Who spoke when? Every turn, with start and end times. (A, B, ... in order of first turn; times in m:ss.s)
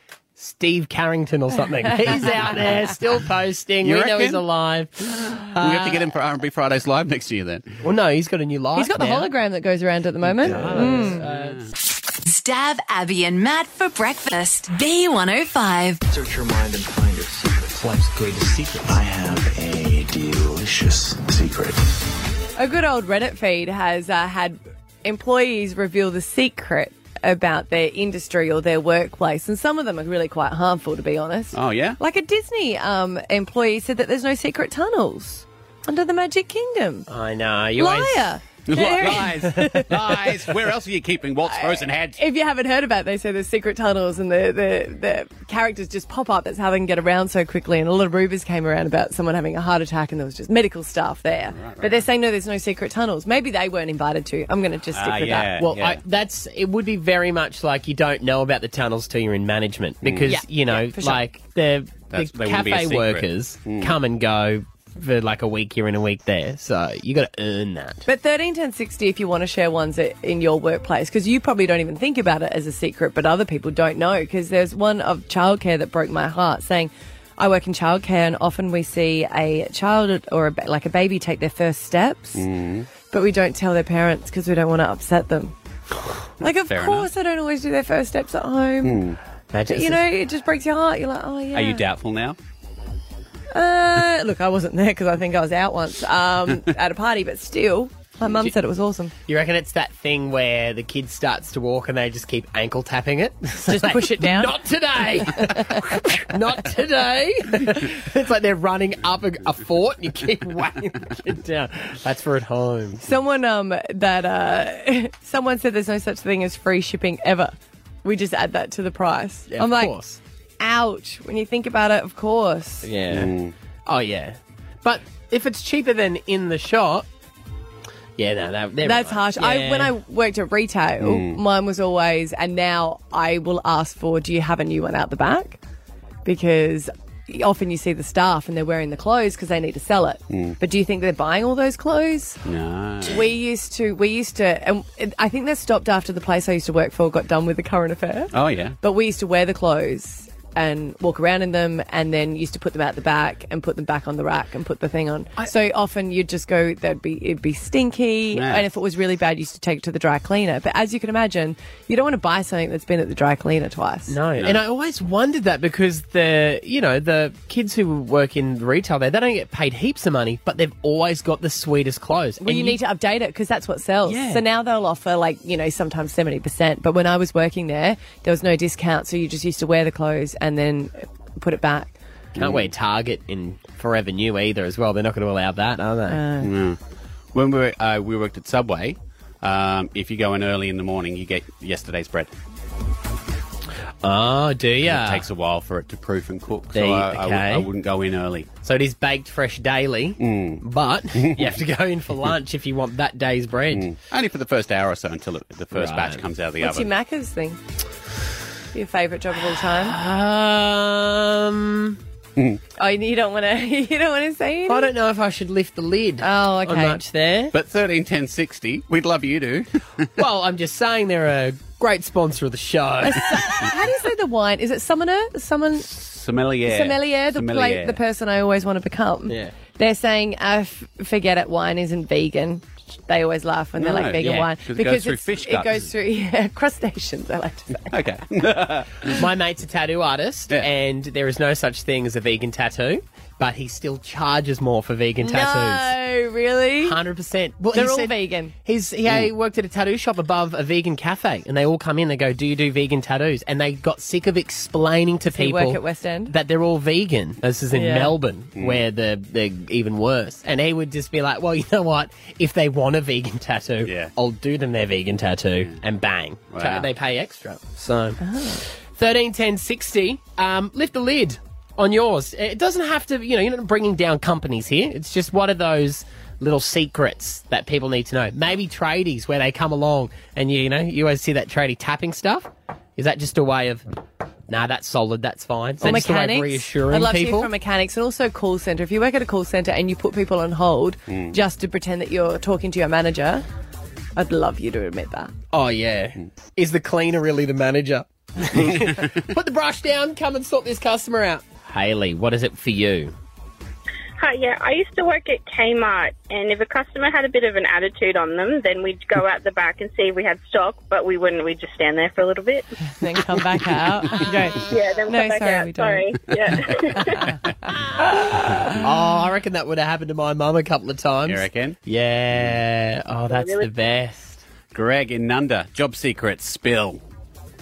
0:00.4-0:06.0 A
0:03.8-0:04.4 B
0:05.1-0:07.7 B
0:07.8-0:09.3 A
0:08.8-0:11.2 C
0:10.4-0:11.6 A
0:10.5-0:10.8 D
0:11.2-0:11.7 B
0:12.2-0:16.0 E
0:16.1-0:21.8 D
0:22.6-0:37.1 C
0:31.5-0:32.0 B
0:37.1-0:38.3 A
0:37.8-0:40.2 C
0:38.7-0:42.2 B
0:41.5-0:55.6 C
0:51.5-0:52.0 B
0:54.9-0:56.0 B
0:55.6-1:08.0 A
1:00.0-1:00.4 B
1:00.3-1:01.2 C
1:02.1-1:04.0 B
1:08.1-1:22.4 C
1:22.4-1:22.9 B
1:23.1-1:25.5 C
1:26.4-1:29.0 C
1:26.4-1:27.1 B
1:28.8-1:29.2 B
1:29.5-1:30.0 A
1:29.7-1:31.8 C
1:31.5-1:32.4 B
1:33.5-1:39.1 C
1:39.3-1:53.0 A
1:43.7-1:44.6 C
1:45.2-1:45.8 C
1:53.0-1:59.9 C
1:59.5-2:00.2 A
2:00.6-2:02.9 C
2:02.8-2:03.3 A
2:03.1-2:03.5 B
2:03.9-2:07.1 A
2:08.2-2:09.9 A
2:08.8-2:15.6 C
2:11.0-2:11.4 B
2:16.2-2:22.4 C
2:20.3-2:20.6 B
2:22.4-2:23.3 B
2:23.0-2:44.2 C
2:28.3-2:28.8 B
2:38.3-2:38.7 B
2:44.1-2:52.8 A
2:52.4-3:01.9 C
2:54.1-2:54.4 A
3:02.4-3:02.7 B
3:02.4-3:06.2 A
3:06.1-3:06.5 C
3:06.4-3:06.8 B
3:07.3-3:12.3 B
3:14.0-3:15.3 A
3:14.8-3:18.5 B
3:16.7-3:17.7 A
3:18.6-3:23.9 A
3:20.2-3:20.6 B
3:21.2-3:21.6 B
3:23.7-3:26.9 B
3:25.7-3:26.2 A
3:26.6-3:27.6 C
3:28.7-3:30.0 C
3:29.6-3:32.0 A
3:32.8-3:34.9 C
3:34.7-3:37.5 A
3:36.2-3:37.0 C
3:37.5-3:40.1 B
3:40.2-3:43.7 A
3:43.0-3:45.9 C
3:45.8-3:48.0 B
3:46.7-3:58.0 C
3:49.3-3:49.5 A
3:53.8-3:55.9 B
3:54.2-3:54.5 A
3:57.9-3:59.2 B
3:59.1-4:05.9 A
4:05.2-4:07.0 C
4:06.8-4:43.8 A
4:07.7-4:08.5 C
4:09.1-4:09.3 B
4:15.3-4:16.3 C
4:17.7-4:18.1 C
4:23.8-4:24.1 B
4:26.5-4:26.9 B
4:28.2-4:28.6 C
4:44.5-4:47.5 A
4:45.8-4:53.4 C
4:51.1-4:51.4 B
4:54.2-4:55.3 C
4:55.5-5:03.1 A
4:58.6-4:59.2 B
5:04.2-5:12.7 F
5:13.0-5:16.1 C
5:14.7-5:17.2 F
5:18.2-5:18.8 C
5:18.8-5:24.4 A
5:21.3-5:21.8 B
5:24.7-5:27.0 B